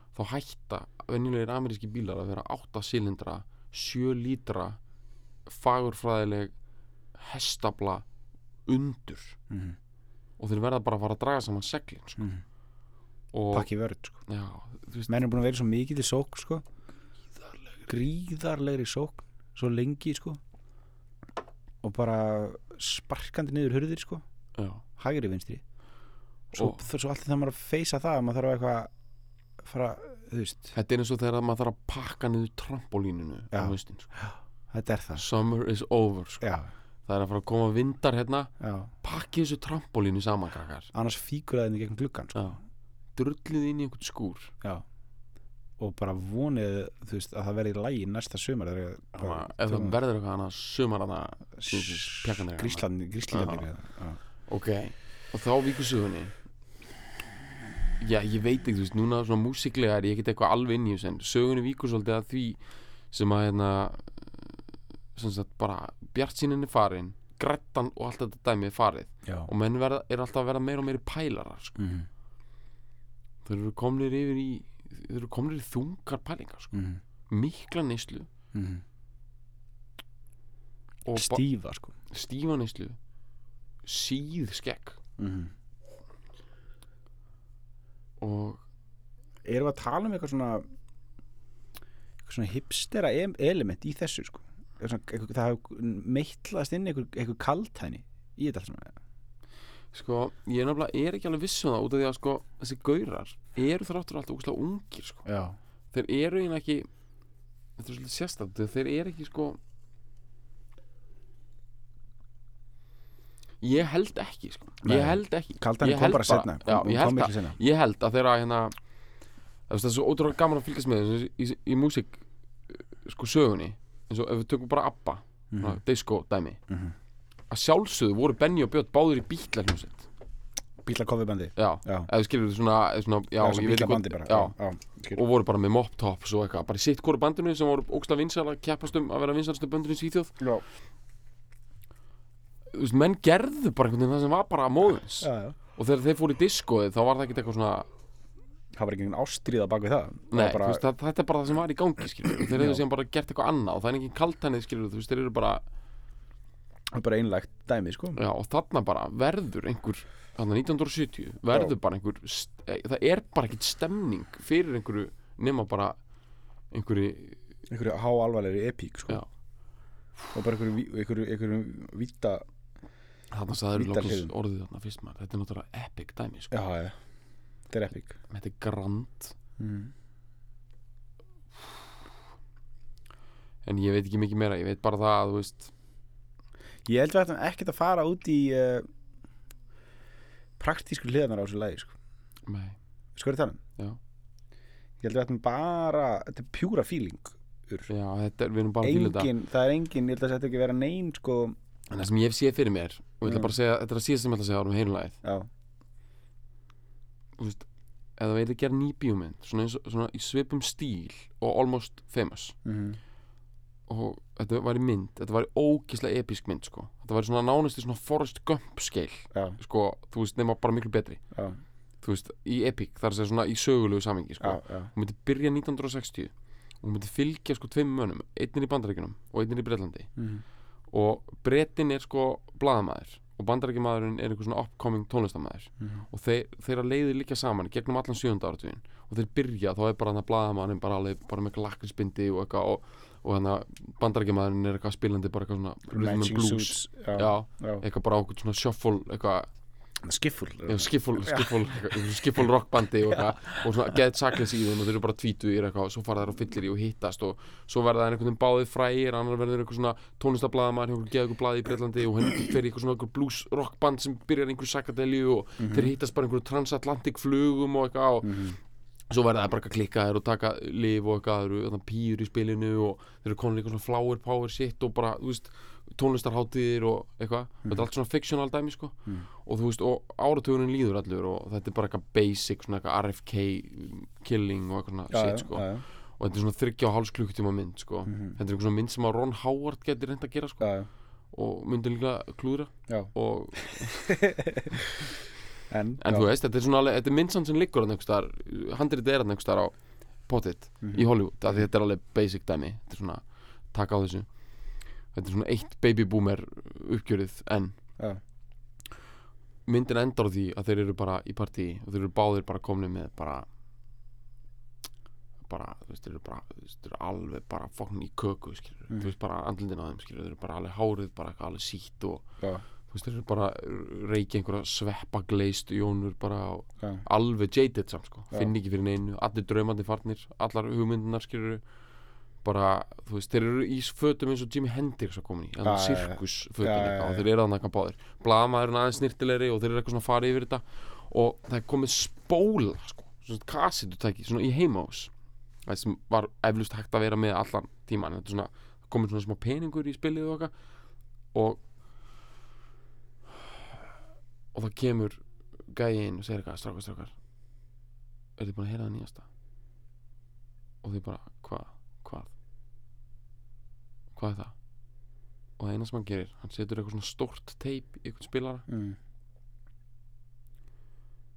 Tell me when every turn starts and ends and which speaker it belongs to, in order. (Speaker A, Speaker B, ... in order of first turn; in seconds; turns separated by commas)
Speaker A: 0.1-4.8, Speaker A: 5.5-6.5, Speaker A: 7.1-8.1, Speaker A: 8.7-9.4, Speaker B: 9.5-9.8, Speaker A: 10.4-12.3, Speaker B: 12.2-12.4, Speaker A: 13.3-13.7, Speaker B: 13.5-14.2, Speaker A: 14.2-15.2, Speaker B: 15.1-16.6, Speaker B: 17.9-20.4, Speaker B: 21.8-24.2, Speaker A: 24.6-24.8, Speaker B: 24.9-25.6, Speaker B: 26.5-28.9, Speaker A: 26.5-26.8, Speaker B: 29.6-30.7, Speaker A: 30.7-34.1, Speaker B: 33.5-35.2, Speaker A: 35.1-36.4, Speaker B: 36.4-36.7, Speaker A: 37.0-40.9, Speaker B: 38.6-38.9, Speaker B: 40.9-42.5, Speaker A: 42.3-42.6, Speaker A: 43.1-44.5, Speaker B: 45.8-50.0, Speaker A: 49.2-53.7, Speaker B: 51.6-54.2, Speaker A: 54.2-56.3, Speaker A: 58.0-64.6, Speaker A: 65.1-71.8, Speaker B: 69.2-69.5, Speaker B: 71.8-72.1, Speaker A: 73.4-76.8, Speaker B: 76.7-77.0, Speaker A: 77.3-78.3, Speaker B: 78.5-78.8, Speaker A: 81.0-81.4, Speaker B: 81.1-81.9, Speaker A: 82.1-83.0, Speaker A: 83.8-85.0, Speaker B: 85.2-85.5, Speaker A: 88.2-88.6, Speaker B: 89.4-90.6, Speaker B: 92.2-99.0, Speaker A: 99.9-105.2, Speaker B: 105.2-105.6, Speaker A: 105.9-106.9, Speaker A: 107.8-109.6, Speaker A: 113.6-118.8, Speaker B: 114.8-117.6, Speaker A: 119.7-126.6, Speaker B: 125.5-125.8, Speaker B: 126.7-126.9, Speaker A: 127.5-130.1, Speaker B: 130.8-132.1, Speaker A: 131.6-134.6, Speaker B: 133.4-135.2, Speaker A: 135.1-140.4, Speaker B: 140.4-140.6, Speaker A: 142.7-147.9, Speaker B: 145.2-145.6, Speaker B: 148.7-150.8, Speaker A: 150.3-155.6, Speaker B: 152.5-152.8, Speaker B: 156.9-158.2, Speaker A: 158.2-166.0, Speaker A: 166.7-167.4, Speaker B: 167.7-169.2, Speaker B: 170.3-172.4, Speaker A: 173.3-176.5, Speaker B: 173.7-174.3, Speaker B: 176.5-177.0, Speaker B: 177.7-178.2, Speaker A: 178.3-179.3, Speaker B: 179.6-179.9, Speaker A: 183.6-185.7, Speaker B: 186.8-188.9, Speaker B: 190.6-191.9, Speaker A: 192.5-192.8, Speaker B: 193.2-193.6, Speaker B: 195.0-197.9, Speaker A: 197.9-199.3, Speaker B: 198.8-201.6, Speaker A: 201.9-205.2, Speaker B: 203.2-203.5, Speaker B: 205.2-205.5, Speaker A: 207.4-212.6, Speaker B: 212.6-213.0, Speaker A: 213.9-221.2, Speaker B: 221.3-221.6, Speaker A: 222.0-230.1, Speaker B: 224.4-224.9, Speaker B: 230.2-230.4, Speaker A: 230.9-249.5, Speaker B: 235.8-236.0, Speaker B: 245.9-247.8, Speaker B: 250.0-252.4, Speaker A: 250.7-268.5, Speaker B: 265.6-265.9, Speaker B: 268.2-268.6, Speaker A: 269.1-290.7, Speaker B: 285.1-285.8, Speaker B: 288.1-288.4, Speaker B: 290.6-290.9, Speaker A: 291.3-294.2, Speaker B: 292.9-294.7, Speaker B: 295.7-296.3, Speaker A: 296.0-307.8, Speaker B: 300.8-301.7, Speaker A: 309.6-313.4, Speaker A: 315.4-331.6, Speaker B: 326.8-327.0, Speaker A: 332.4-345.1, Speaker B: 335.6-337.2, Speaker A: 345.6-350.6, Speaker A: 351.3-351.6, Speaker A: 354.5-357.2, Speaker A: 358.4-359.2, Speaker A: 360.8-362.3, Speaker A: 364.1-364.6, Speaker A: 365.6-368.6, Speaker B: 368.7-369.0